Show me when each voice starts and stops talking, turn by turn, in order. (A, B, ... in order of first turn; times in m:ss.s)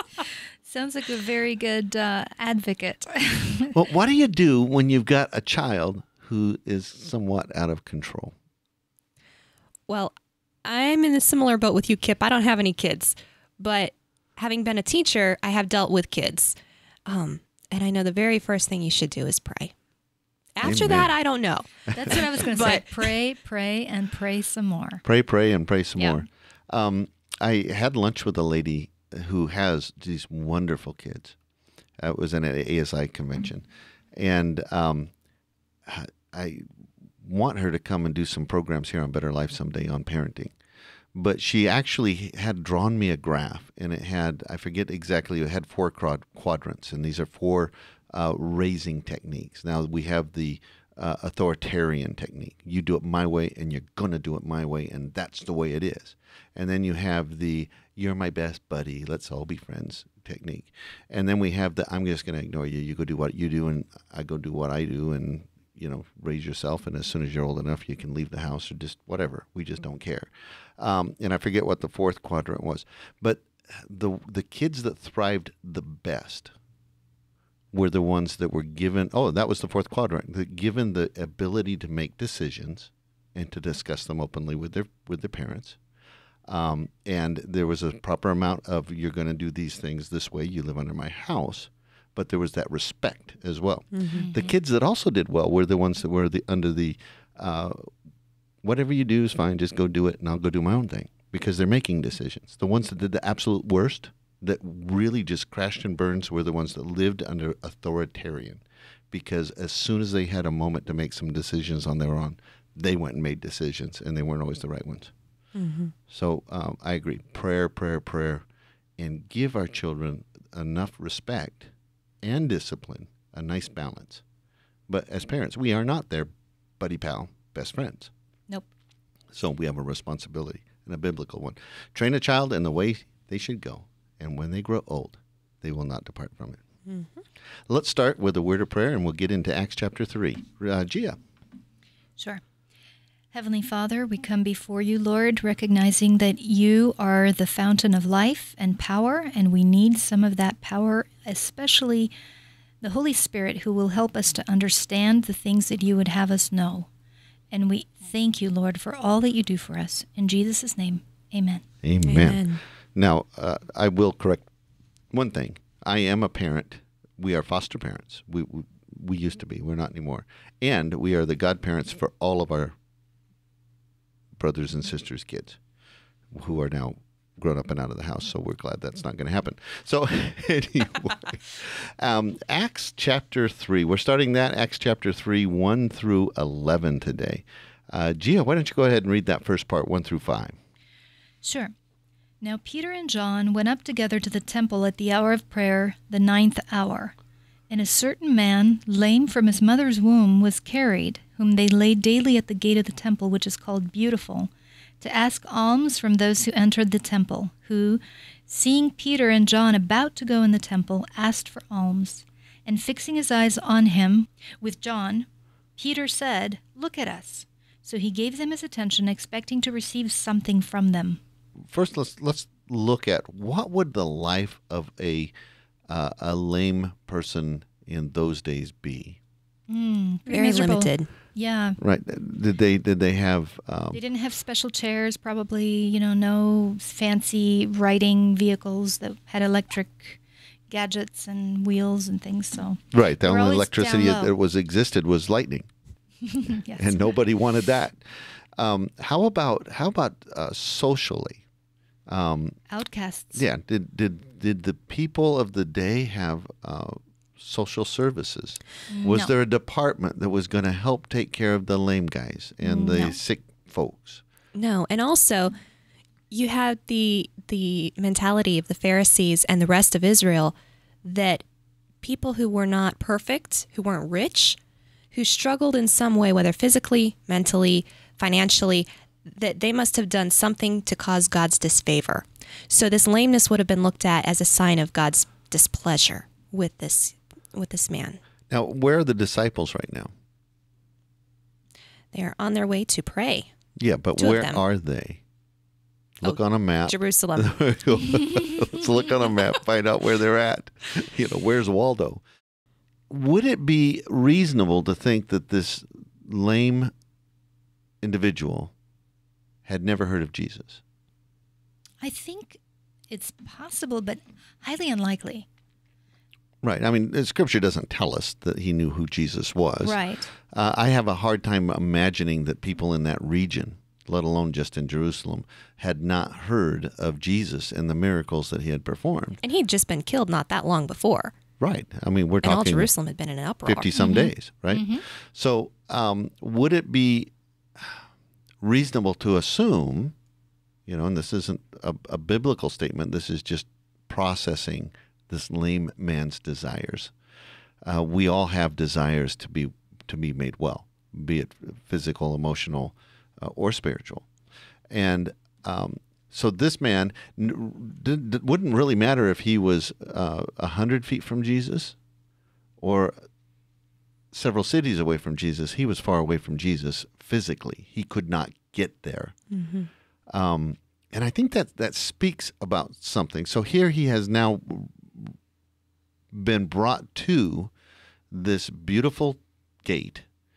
0:00.6-0:03.8 A
0:03.7-0:08.3 B
0:09.9-0:10.1 C
0:10.6-0:16.6 C
0:17.1-0:19.7 C
0:20.6-0:22.8 C
0:20.6-0:21.1 B
0:21.9-0:25.0 A
0:21.9-0:22.2 B
0:25.0-0:31.4 B
0:26.0-0:26.2 A
0:32.0-0:35.1 B
0:35.9-0:36.6 B
0:37.2-0:40.5 B
0:41.1-1:16.5 B
1:17.7-1:25.8 B
1:26.5-1:37.9 B
1:34.1-1:34.5 A
1:38.6-1:55.1 B
1:55.6-1:55.9 C
1:56.1-1:58.4 B
1:59.0-2:01.7 B
2:02.2-2:04.2 B
2:04.9-2:08.1 B
2:09.3-2:16.6 B
2:17.7-2:21.2 B
2:23.3-2:32.1 A
2:32.8-2:36.9 A
2:37.5-2:41.6 A
2:41.8-2:44.5 B
2:42.0-2:42.6 C
2:45.1-2:52.8 B
2:54.4-2:55.6 B
2:56.3-3:10.5 B
3:11.4-3:11.7 A
3:12.4-3:17.1 A
3:17.7-3:24.5 A
3:25.0-3:41.2 A
3:41.7-3:45.3 B
3:45.9-3:49.2 B
3:49.7-3:51.8 A
3:50.3-3:51.1 C
3:51.8-3:54.0 B
3:53.9-4:00.2 A
4:00.7-4:04.3 A
4:02.9-4:05.7 B
4:06.3-4:07.2 A
4:06.8-4:11.4 B
4:12.1-4:12.6 B
4:12.7-4:13.4 A
4:13.4-4:24.2 B
4:18.9-4:19.3 A
4:22.6-4:23.2 A
4:24.5-4:25.6 C
4:26.3-4:31.4 C
4:32.0-4:34.6 C
4:35.1-4:48.2 C
4:48.5-4:50.1 B
4:52.1-4:53.5 C
4:53.8-4:55.2 B
4:54.2-4:54.6 C
4:56.2-5:02.2 B
4:56.2-4:57.6 C
5:03.1-5:06.9 B
5:08.0-5:08.7 B
5:09.6-5:10.8 B
5:12.0-5:12.6 A
5:13.1-5:15.5 A
5:16.6-5:29.4 B
5:19.8-5:20.3 A
5:29.4-5:31.3 C
5:31.6-5:32.9 B
5:32.4-5:34.3 C
5:33.6-5:38.0 B
5:34.0-5:35.0 A
5:38.6-5:40.1 B
5:40.9-5:47.1 B
5:47.8-5:54.3 B
5:54.9-6:02.0 B
6:02.8-6:03.2 B
6:04.3-6:09.4 B
6:09.5-6:09.9 C
6:10.3-6:15.4 B
6:16.3-6:17.7 B
6:18.3-6:20.2 B